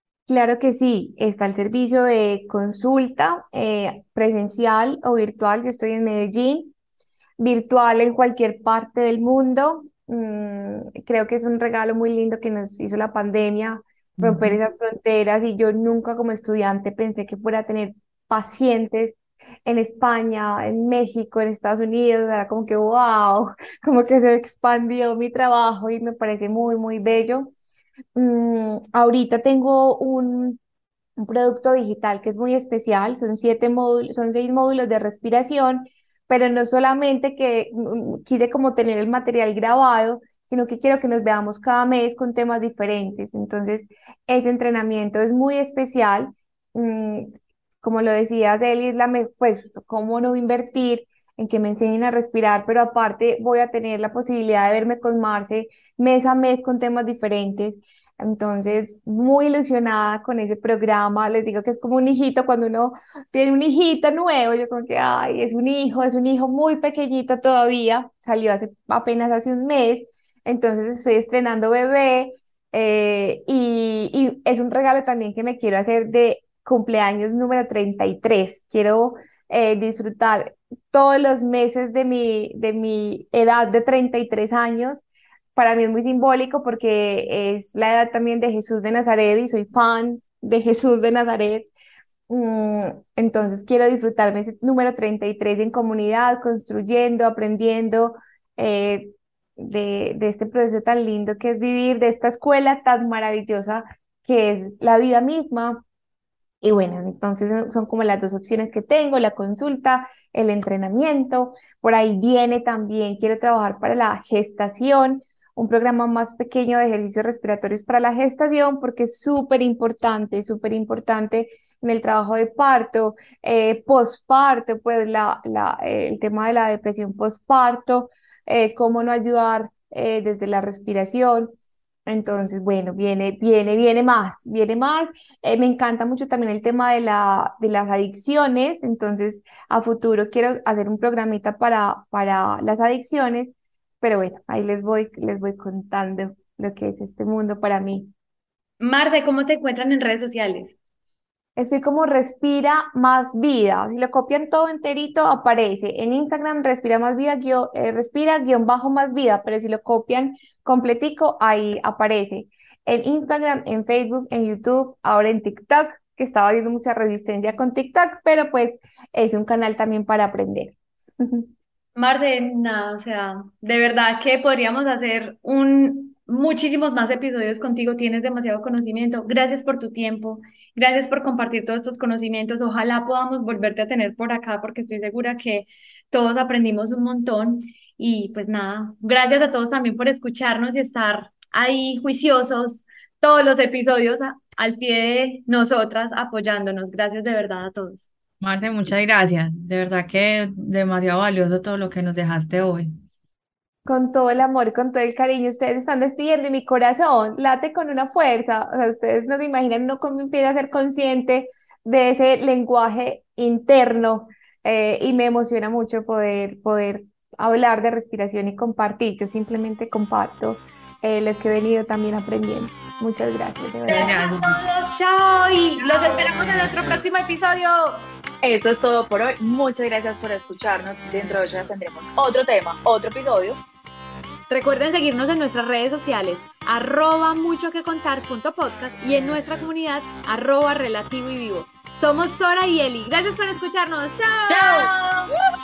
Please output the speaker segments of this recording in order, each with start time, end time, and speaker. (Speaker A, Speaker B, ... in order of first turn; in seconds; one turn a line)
Speaker A: 0.3-6.7
Speaker A: 7.4-27.5
Speaker B: 14.2-14.6
Speaker A: 28.1-30.6
Speaker A: 31.2-85.0
Speaker A: 85.6-91.7
Speaker A: 92.3-105.8
Speaker A: 106.6-131.6
Speaker A: 132.1-148.1
Speaker C: 148.8-150.8
Speaker A: 151.6-171.5
Speaker C: 172.0-198.1
Speaker B: 198.4-202.9
Speaker A: 203.9-224.2
Speaker C: 223.9-228.0
Speaker D: 223.9-224.6
Speaker D: 225.8-226.4
Speaker D: 228.4-233.6
Speaker C: 234.5-244.9
Speaker D: 244.5-245.3